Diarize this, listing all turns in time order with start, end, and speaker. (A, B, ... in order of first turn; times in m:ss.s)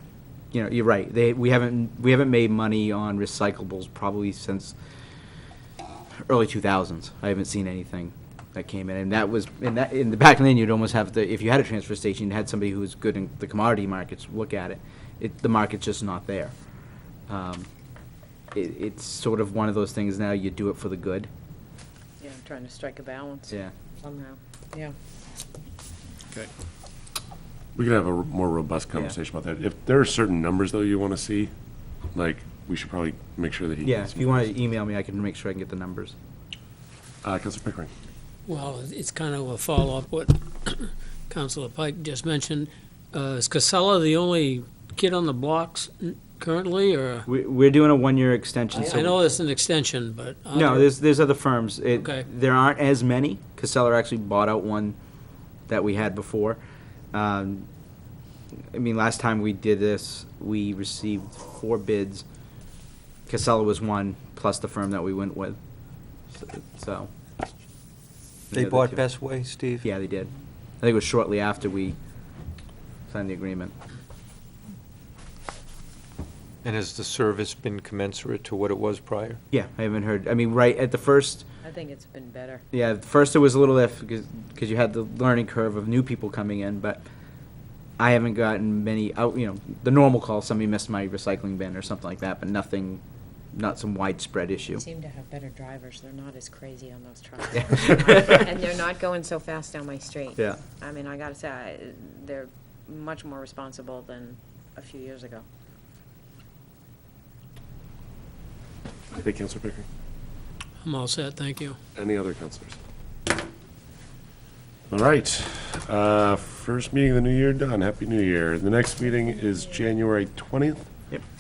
0:00.5-0:04.8 A
0:06.2-0:16.6 A
0:17.3-0:17.7 A
0:18.5-0:21.3 A
0:22.2-0:24.9 B
0:27.8-0:31.5 C
0:32.1-0:34.3 C
0:33.8-0:36.2 A
0:37.2-0:37.9 C
0:38.5-0:47.3 D
0:47.3-0:49.2 A
0:48.7-0:50.9 D
0:50.5-0:55.0 A
0:52.0-0:52.2 D
0:55.7-0:56.6 A
0:57.1-0:57.7 A
0:58.7-1:02.2 A
1:03.3-1:05.6 A
1:06.3-1:07.1 A
1:08.5-1:09.9 E
1:08.5-1:09.0 A
1:09.8-1:10.3 A
1:10.8-1:12.0 A
1:13.1-1:13.7 A
1:16.6-1:19.4 E
1:19.5-1:21.5 A
1:21.6-1:22.6 B
1:22.7-1:27.0 A
1:28.0-1:33.0 A
1:33.5-1:34.8 A
1:34.8-1:45.4 B
1:37.7-1:38.4 A
1:49.1-1:49.9 C
1:50.8-1:51.8 D
1:52.0-1:52.8 C
1:54.9-2:00.9 C